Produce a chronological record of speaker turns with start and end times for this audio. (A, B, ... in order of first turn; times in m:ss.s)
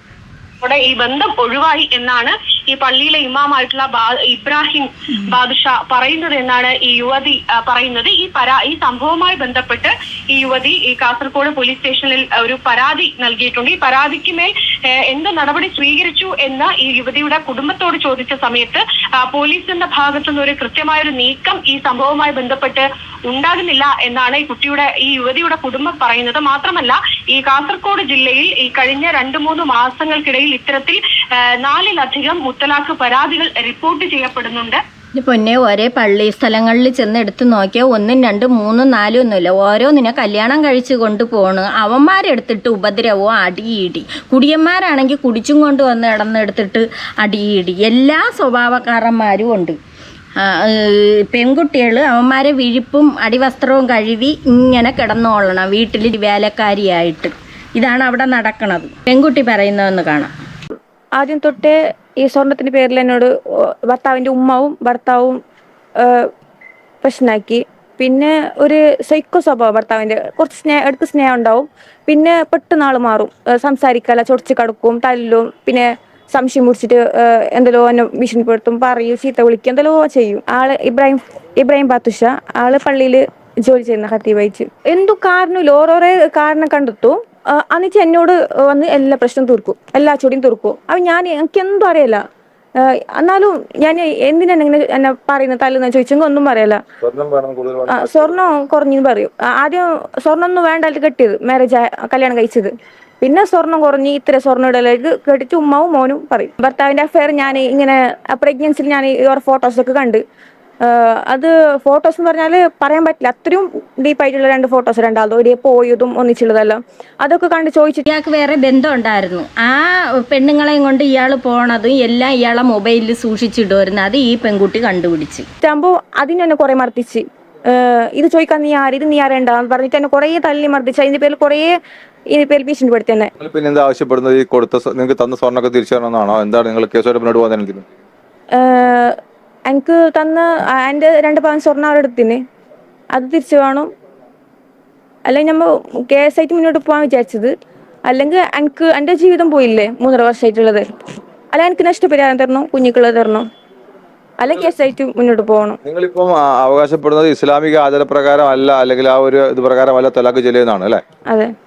0:00.6-0:31.0 A
0:31.6-0:34.8 A
0:35.2-0:49.8 B
0:50.4-1:00.3 B
1:01.2-1:03.3 C
1:03.8-1:05.4 C
1:06.0-1:06.3 C
1:07.0-1:32.2 C
1:32.7-1:36.8 C
1:37.0-1:38.3 D
1:37.9-1:50.2 C
1:50.8-1:58.0 C
1:58.1-2:05.4 B
2:05.6-2:11.8 C
2:12.3-2:13.3 C
2:13.4-2:17.8 D
2:18.5-2:22.4 C
2:23.1-2:23.9 C
2:25.2-2:27.5 C
2:28.0-2:30.8 C
2:31.5-2:33.4 C
2:34.4-2:35.8 C
2:35.8-2:41.0 D
2:41.3-2:41.5 C